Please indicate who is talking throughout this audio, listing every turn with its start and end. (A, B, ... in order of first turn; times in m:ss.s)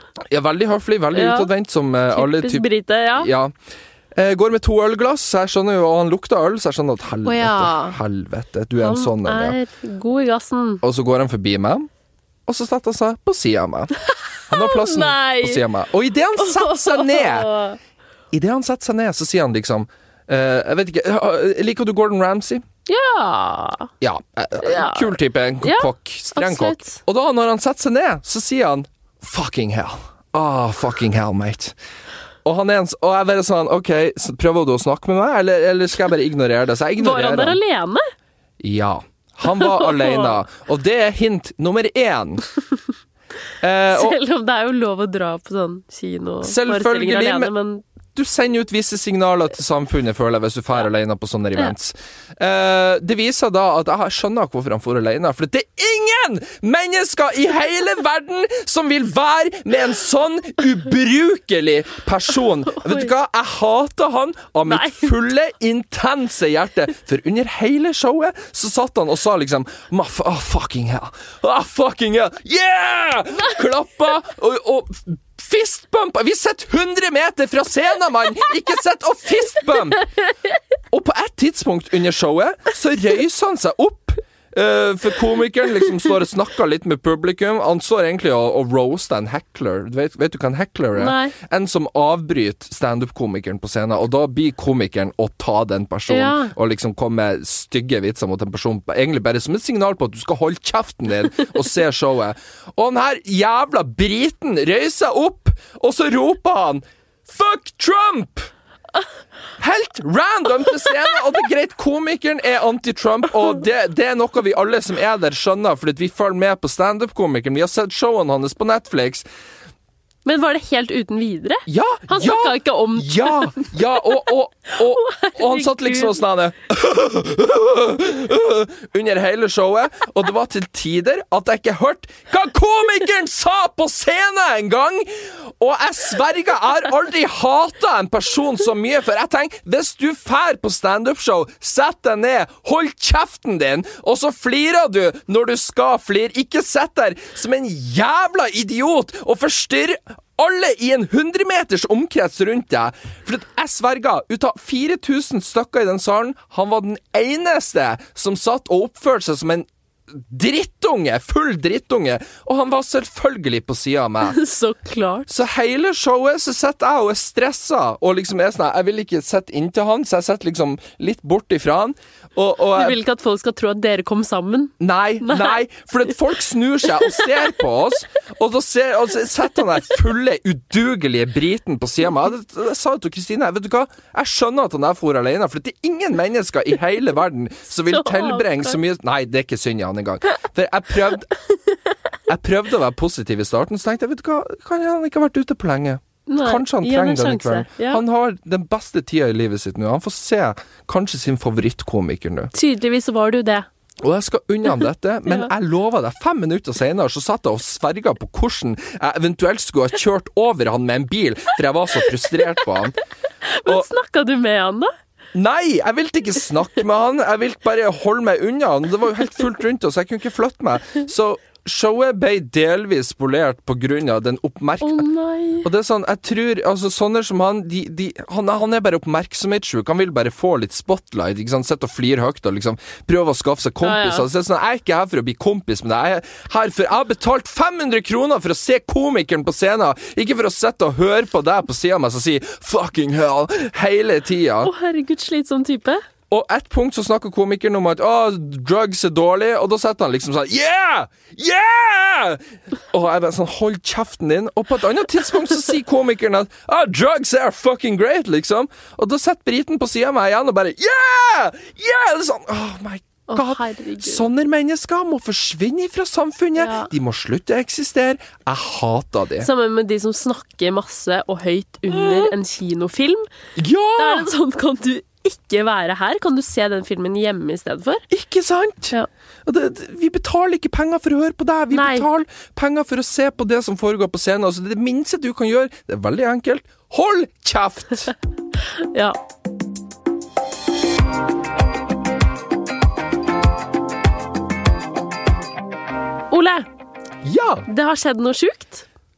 0:00.3-0:03.5 A
0:01.1-0:01.5 B
0:02.1-0:03.3 B
0:04.1-0:09.6 A
0:07.2-0:08.0 B
0:08.8-0:10.8 B
0:10.8-0:11.9 A
0:12.5-0:14.0 A
0:14.1-0:15.6 B
0:14.5-0:17.5 A
0:16.4-0:17.8 B
0:18.3-0:22.6 A
0:22.9-0:23.9 B
0:24.0-0:31.8 A
0:24.6-0:27.0 B
0:32.4-0:37.6 A
0:37.0-0:38.0 B
0:38.6-0:42.4 A
0:39.4-0:40.4 B
0:43.6-0:44.2 A
0:43.9-0:47.8 B
0:46.4-0:47.5 A
0:48.1-1:20.1 A
1:04.7-1:05.1 B
1:20.9-1:48.5 A
1:30.9-1:31.3 B
1:36.1-1:36.5 B
1:49.6-1:59.2 A
2:00.2-2:03.7 B
2:01.7-2:44.4 A
2:04.8-2:06.2 B
2:44.2-2:45.3 B
2:45.3-2:53.0 A
2:52.8-2:55.6 B
2:54.8-3:11.3 A
3:07.9-3:08.8 B
3:12.3-3:22.5 A
3:16.3-3:18.0 B
3:22.5-3:23.7 B
3:24.0-3:33.0 A
3:33.5-3:34.9 B
3:35.3-3:45.0 A
3:44.8-3:45.7 B
3:45.6-4:04.7 A
3:53.8-3:54.2 B
4:04.6-4:06.0 B
4:06.3-4:29.5 A
4:23.3-4:24.2 B
4:26.6-4:26.9 B
4:29.4-4:33.3 B
4:31.9-4:32.3 A
4:33.6-4:34.3 A
4:34.0-4:38.0 B
4:38.1-4:38.9 A
4:39.4-4:48.1 A
4:41.7-4:42.1 B
4:48.8-4:49.2 B
4:56.3-4:56.7 B
4:57.2-4:57.6 A
4:57.7-4:58.9 B